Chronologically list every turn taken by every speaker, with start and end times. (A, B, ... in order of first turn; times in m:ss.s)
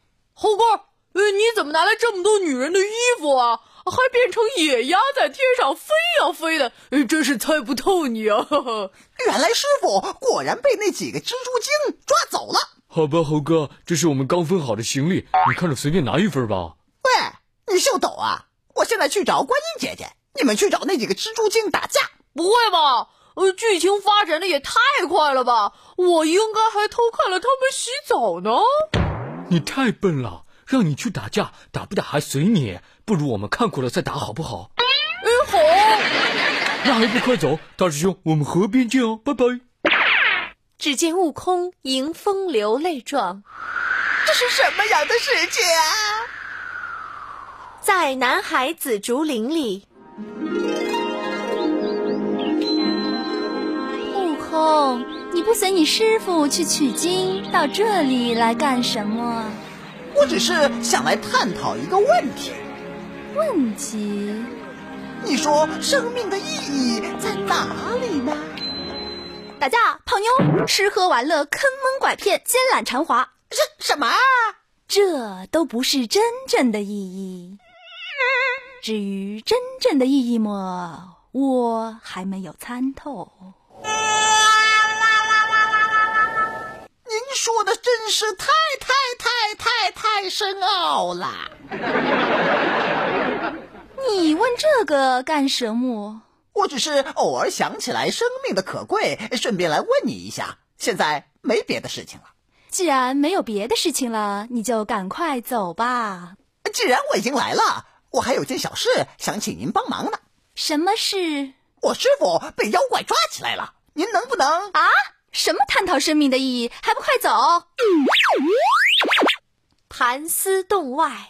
0:00.4-0:08.9 A
0:09.2-0:12.7 B
0:12.9-0:16.7 C
0:17.0-0:22.1 B
0:22.3-0:28.7 A
0:29.5-0:34.7 C
0:35.2-0:36.1 A
0:36.8-0:39.6 C
0:40.8-0:43.4 D
0:44.2-0:46.3 B
0:47.8-0:49.8 D
0:54.1-0:59.6 E
1:00.1-1:02.6 B
1:03.3-1:04.5 E
1:05.2-1:08.6 B
1:09.6-1:13.3 E
1:13.5-1:14.5 B
1:14.9-1:17.6 E
1:18.8-1:23.5 E
1:27.0-1:31.5 B
1:34.0-1:36.2 E
1:36.5-1:42.3 B
1:42.7-1:46.3 E
1:46.6-1:50.2 B
1:50.6-1:51.5 E
1:51.8-1:54.7 B
1:54.7-1:57.6 E